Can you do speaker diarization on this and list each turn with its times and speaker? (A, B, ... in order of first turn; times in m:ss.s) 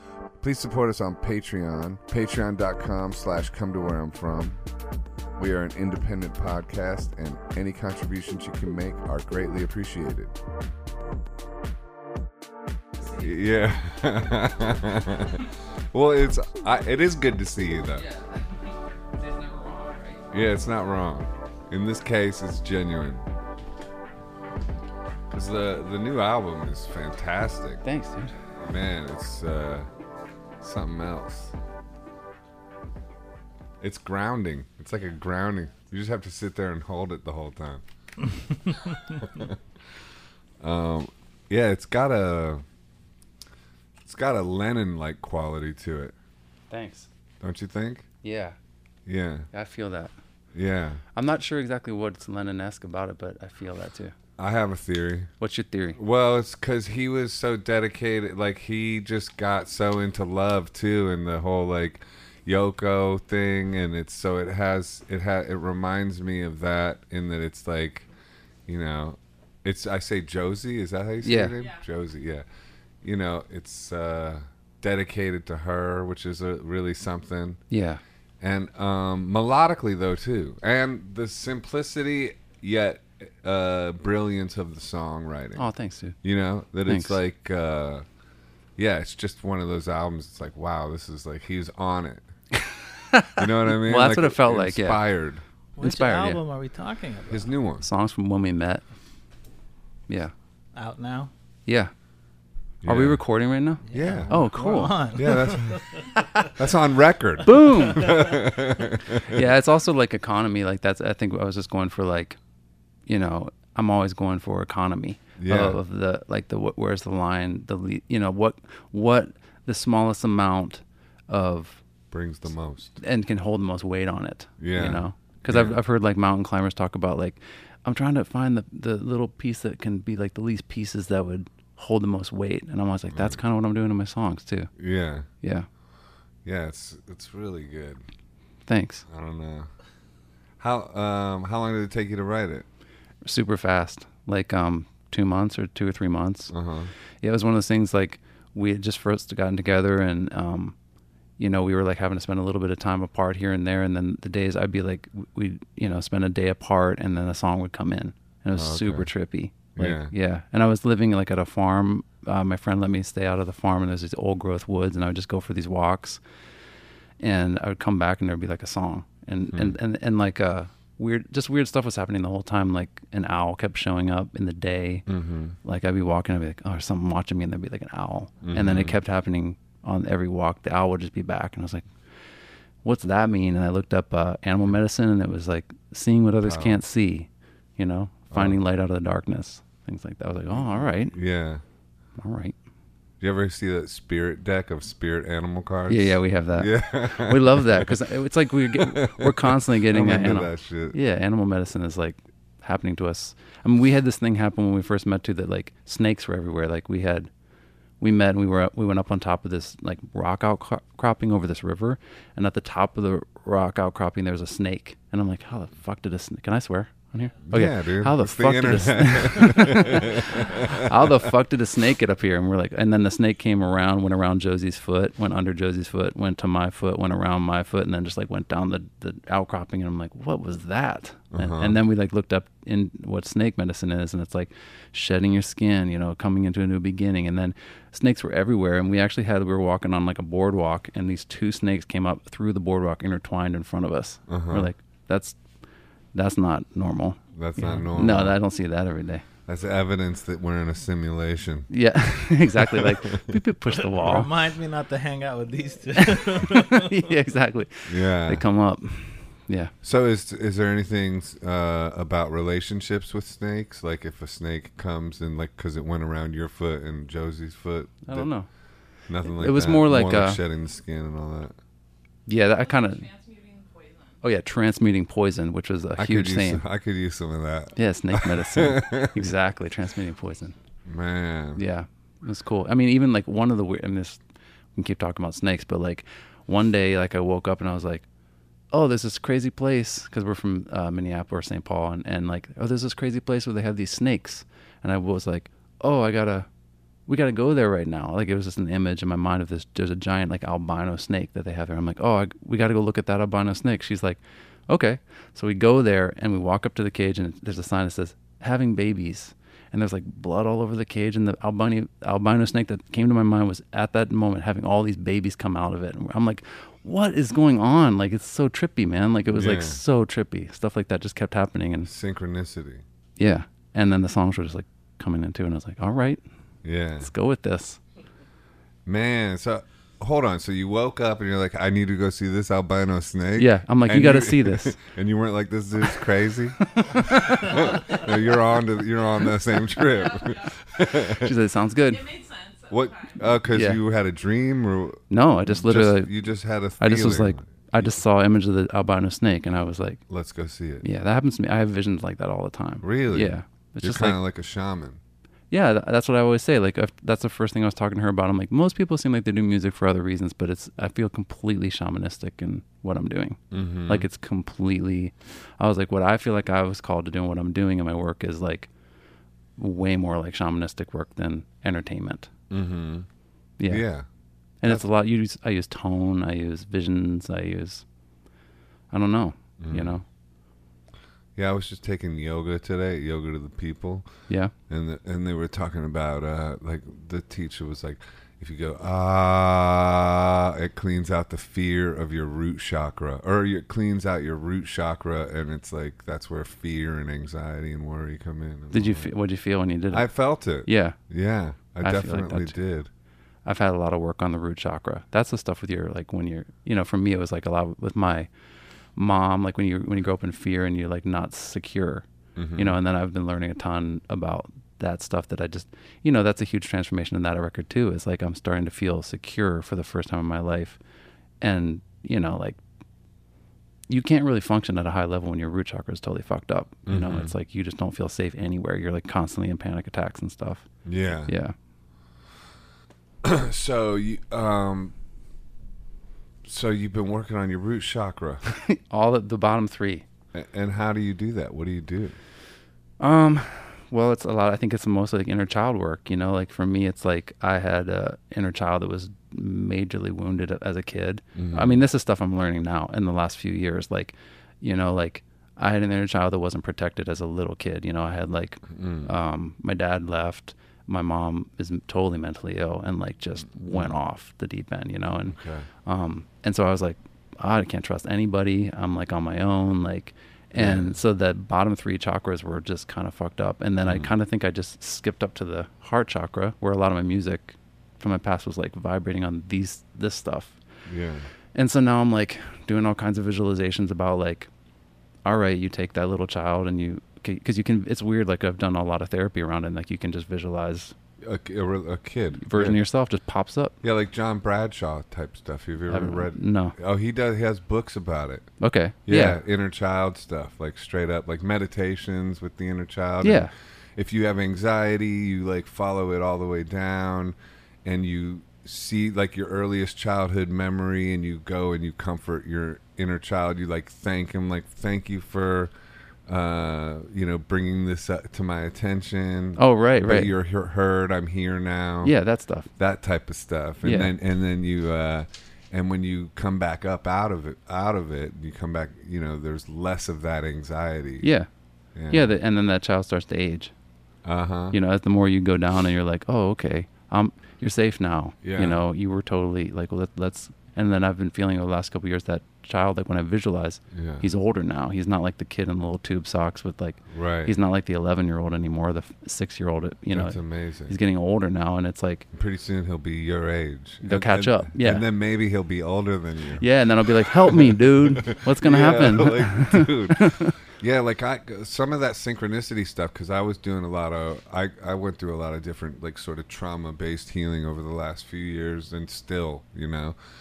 0:00.4-0:04.6 A
0:05.4-0:10.4 A
0:13.0-0:18.0 A
0:19.2-0:20.2 B
0:20.3-0:23.3 A
0:25.3-0:27.8 A
0:27.8-0:28.3 B
0:28.6-0:29.9 A
0:30.6-0:31.5 A
0:33.8-0:37.8 A
0:38.6-0:39.6 A
0:40.6-0:42.6 A
0:44.0-0:46.1 A
0:46.7-0:47.1 B
0:47.4-0:48.1 A
0:48.2-0:48.6 B
0:49.0-0:49.5 A
0:49.5-0:50.1 B
0:50.5-0:51.0 A
0:51.1-0:54.1 B
0:54.4-0:55.3 A
0:55.4-0:56.0 B
0:55.9-1:08.0 A
1:08.7-1:12.4 A
1:11.2-1:11.5 B
1:11.5-1:11.8 C
1:13.0-1:17.6 A
1:17.7-1:18.0 B
1:18.4-1:25.7 A
1:25.6-1:26.2 B
1:26.2-1:28.0 A
1:26.9-1:27.2 B
1:28.8-1:32.2 A
1:32.5-1:35.0 B
1:33.4-1:35.4 A
1:35.8-1:37.5 D
1:35.8-1:36.4 B
1:37.3-1:37.8 A
1:37.8-1:38.8 B
1:40.7-1:41.3 D
1:41.7-1:41.9 B
1:42.8-1:43.2 A
1:42.8-1:45.2 B
1:43.8-1:46.5 D
1:43.9-1:44.3 A
1:45.1-1:45.8 A
1:46.4-1:49.5 A
1:47.4-1:48.2 B
1:49.2-1:52.4 B
1:53.1-2:01.8 B
1:55.4-1:55.8 A
2:02.1-2:03.0 A
2:03.0-2:14.7 B
2:04.6-2:05.8 A
2:13.1-2:13.4 A
2:14.8-2:15.3 A
2:15.4-2:15.7 B
2:16.4-2:18.0 A
2:18.7-2:19.0 B
2:19.1-2:19.7 A
2:20.6-2:22.6 A
2:23.2-2:26.5 B
2:26.5-2:26.9 A
2:27.2-2:30.7 B
2:31.4-2:46.2 B
2:38.5-2:39.1 A
2:39.8-2:40.1 A
2:47.2-2:55.0 B
2:55.1-2:55.6 A
2:55.6-3:01.9 B
2:58.4-2:59.0 A
3:02.8-3:11.1 B
3:06.4-3:06.8 A
3:08.3-3:08.6 A
3:10.5-3:11.6 A
3:12.2-3:12.6 B
3:13.2-3:18.0 A
3:15.9-3:27.3 B
3:18.6-3:21.0 A
3:28.0-4:05.4 B
3:37.4-3:41.1 A
3:51.3-3:51.8 A
4:04.3-4:04.7 A
4:06.1-4:09.2 B
4:07.3-4:08.4 A
4:09.4-4:11.7 A
4:11.7-4:14.3 B
4:12.2-4:13.4 A
4:13.9-4:16.9 D
4:16.0-4:19.7 B
4:17.9-4:18.4 A
4:19.8-4:28.3 A
4:28.1-4:28.5 B
4:29.1-4:31.5 A
4:29.2-4:30.4 B
4:32.2-4:33.0 B
4:32.6-4:34.2 C
4:34.2-4:36.6 B
4:36.0-4:39.3 A
4:37.8-4:40.6 B
4:40.8-4:41.6 A
4:41.6-4:44.2 B
4:44.8-4:48.0 B
4:48.7-4:56.5 B
4:57.1-5:21.9 B
5:19.3-5:19.8 A
5:21.8-5:22.8 A
5:23.2-5:26.2 B
5:26.6-5:27.1 A
5:27.0-5:27.8 B
5:28.8-5:41.3 A
5:33.4-5:34.8 B
5:36.6-5:37.7 B
5:39.9-5:40.5 C
5:40.9-5:42.0 B
5:41.9-5:43.2 C
5:42.7-5:47.9 A
5:43.5-5:43.8 B
5:45.1-5:46.1 B
5:46.8-5:50.0 B
5:50.1-5:50.8 A
5:50.8-5:54.2 B
5:52.8-5:55.0 A
5:55.5-6:08.7 B
6:03.5-6:04.0 A
6:09.6-6:12.3 B
6:12.5-6:13.1 A
6:13.6-6:13.8 B
6:13.7-6:14.0 A
6:14.6-6:17.8 B
6:18.9-6:20.0 B
6:19.6-6:20.0 A
6:21.4-6:24.1 A
6:24.7-6:39.1 A
6:38.7-6:40.1 B
6:39.9-6:42.9 A
6:40.6-6:41.0 B
6:41.8-6:42.6 B
6:43.4-6:48.3 B
6:49.0-6:52.0 B
6:52.4-6:52.8 A
6:52.6-7:00.8 B
7:01.4-7:02.6 B
7:03.9-7:10.7 B
7:06.9-7:07.3 A
7:10.8-7:11.3 A
7:11.3-7:11.5 B
7:13.2-7:14.9 A
7:16.4-7:18.4 A
7:18.5-7:20.0 B
7:20.3-7:22.2 A
7:23.0-8:00.6 B
7:31.3-7:31.8 A
7:38.7-7:39.1 A
7:45.3-7:45.7 A
7:50.6-7:50.9 A
7:53.8-7:54.1 A
8:00.8-8:01.3 A
8:01.5-8:04.5 B
8:05.2-8:10.9 B
8:11.2-8:12.8 A
8:12.4-8:13.8 B
8:13.8-8:18.5 A
8:15.9-8:16.7 B
8:18.6-8:19.4 B
8:19.0-8:35.7 A
8:23.2-8:23.5 B
8:36.3-8:42.1 A
8:39.6-8:40.3 B
8:42.0-8:42.7 B
8:42.8-8:51.3 A
8:43.8-8:44.1 B
8:51.2-8:51.5 B
8:51.9-8:52.4 A
8:52.1-8:53.7 B
8:54.2-8:54.8 A
8:54.7-9:12.2 B
8:58.4-8:58.8 A
9:03.9-9:04.2 A
9:07.1-9:07.5 A
9:10.1-9:11.0 A
9:12.3-9:16.6 A
9:14.0-9:15.0 B
9:16.6-9:20.6 B
9:17.2-9:30.2 A